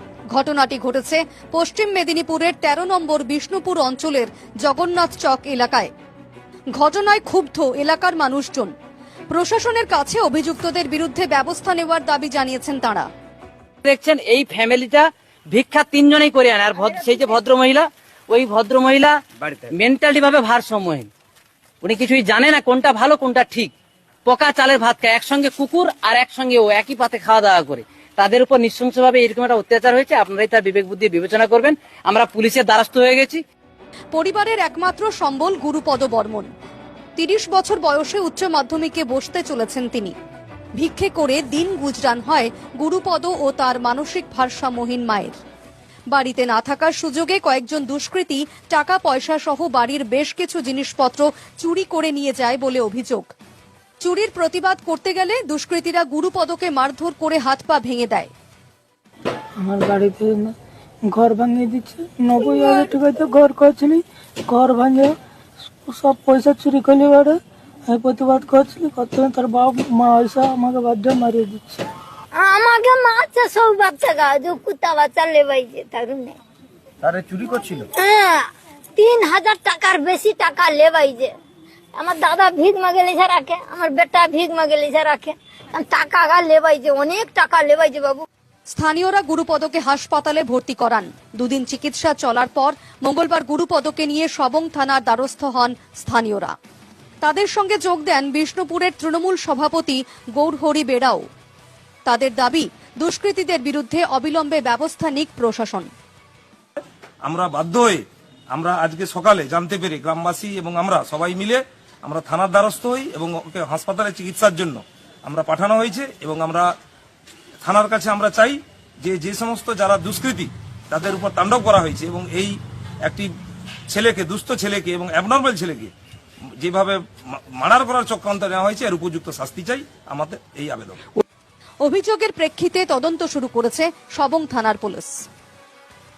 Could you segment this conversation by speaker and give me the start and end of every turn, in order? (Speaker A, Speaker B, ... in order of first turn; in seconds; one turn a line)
Speaker A: 0.3-5.9
Speaker A: 6.7-8.7
Speaker A: 9.3-13.1
Speaker B: 13.8-21.1
Speaker B: 21.8-23.7
Speaker B: 24.3-33.4
Speaker A: 34.1-36.5
Speaker A: 37.2-40.1
Speaker A: 40.8-45.4
Speaker A: 46.1-53.3
Speaker A: 54.0-58.3
Speaker C: 59.6-65.1
Speaker C: 65.8-71.9
Speaker D: 72.3-76.4
Speaker D: 78.0-81.3
Speaker D: 82.0-88.3
Speaker A: 88.7-96.5
Speaker A: 97.2-101.2
Speaker A: 102.1-105.9
Speaker E: 107.3-116.7
Speaker E: 117.6-123.3
Speaker E: 123.9-125.9
Speaker E: 126.6-131.0
Speaker A: 131.8-135.2